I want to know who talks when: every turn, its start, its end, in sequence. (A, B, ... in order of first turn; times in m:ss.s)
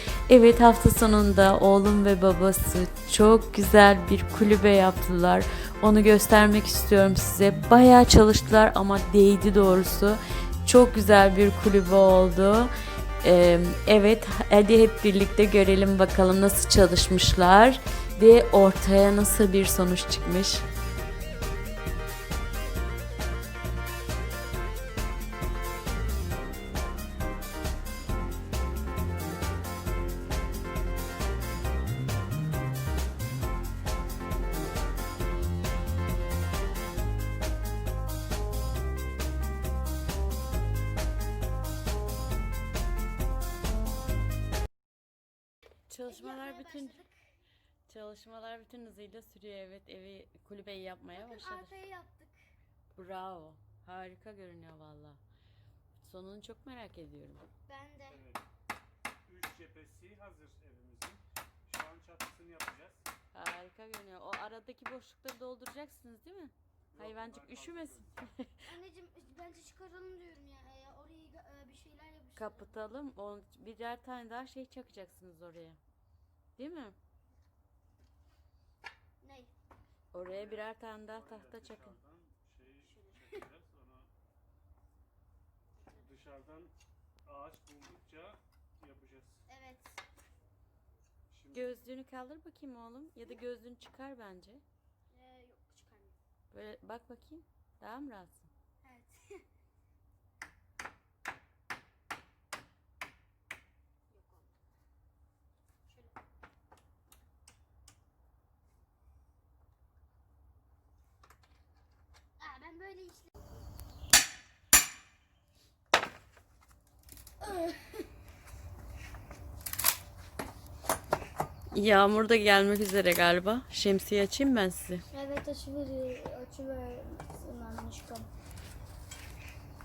0:00.3-0:12.7 A
0:13.2-0:20.6 A
0:45.9-0:47.0 A
0:46.1-0:47.1 B
0:47.9-0:51.8 A
0:51.1-0:52.4 B
0:52.9-0:55.2 A
0:56.0-0:57.4 A
0:57.7-0:58.2 B
0:58.1-0:58.4 C
0:59.2-1:03.1 C
1:03.3-1:08.6 A
1:06.9-1:08.2 C
1:08.7-1:12.7 B
1:12.4-1:15.8 A
1:16.6-1:17.0 A
1:19.2-1:19.5 B
1:20.1-1:22.0 A
1:20.2-1:24.1 C
1:22.8-1:23.4 B
1:26.0-1:26.7 C
1:27.2-1:29.4 C
1:29.5-1:30.0 B
1:31.3-1:31.7 C
1:31.5-1:34.6 A
1:35.1-1:36.2 B
1:36.5-1:38.4 A
1:38.8-1:39.4 B
1:44.1-1:44.5 B
1:52.4-1:53.4 B
1:57.4-1:57.8 B
2:01.7-2:05.0 A
2:05.1-2:08.3 B